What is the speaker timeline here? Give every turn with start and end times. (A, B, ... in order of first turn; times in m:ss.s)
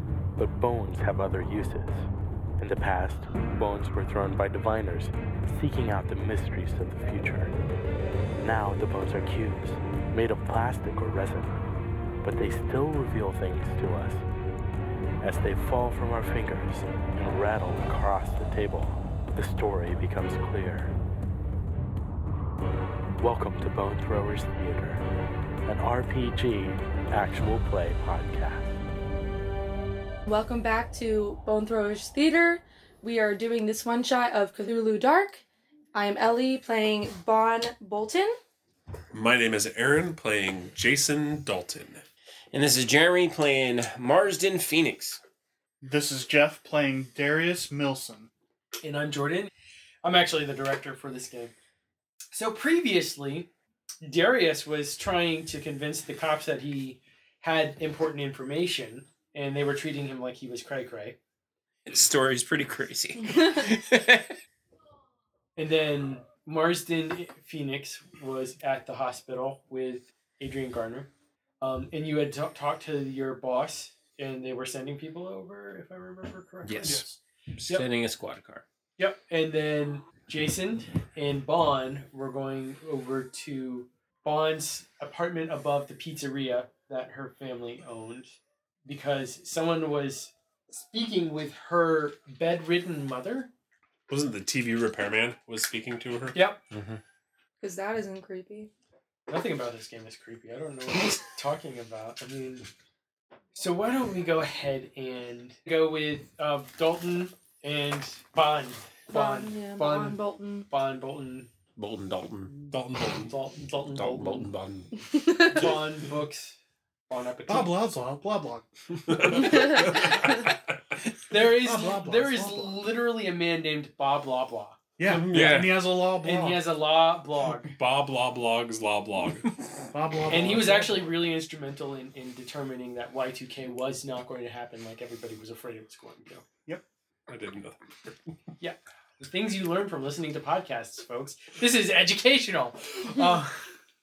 0:00.4-0:02.1 A
0:02.6-0:07.5 A
0:08.4-0:11.6 A
0:12.2-0:14.2 A
0:15.2-0:20.9 A
0:23.2-0:25.0 A
0:25.7-0:28.7 A
0:30.3-0:38.4 B
0:39.1-0:42.0 C
0:42.5-0:45.2 D
0:45.8-0:48.3 E
0:48.8-0:49.5 F
0:50.0-0:51.5 F
0:52.3-0:53.5 F
0:54.0-1:01.2 F
1:01.8-1:04.3 D
1:05.6-1:11.1 F
1:11.6-1:17.9 F
1:16.6-1:17.1 D
1:17.6-1:18.6 D
1:19.0-1:33.5 F
1:34.1-1:36.4 C
1:36.3-1:36.6 F
1:36.7-1:37.0 D
1:37.6-1:38.7 B
1:39.3-1:42.7 F
1:43.6-1:51.5 F
1:49.1-1:50.7 B
1:51.8-1:52.5 D
1:52.6-1:53.3 C
1:53.2-1:54.5 F
1:54.0-1:54.9 D
1:54.5-1:54.9 C
1:55.0-1:55.6 B
1:55.4-1:56.6 F
1:57.1-1:57.8 F
1:57.5-1:58.7 E
1:59.1-2:00.5 C
1:59.6-2:00.2 B
2:01.3-2:07.7 F
2:01.3-2:02.9 E
2:05.0-2:06.7 E
2:05.1-2:06.0 C
2:07.7-2:09.5 C
2:09.9-2:11.1 E
2:10.3-2:16.4 F
2:17.3-2:18.3 C
2:18.6-2:23.6 F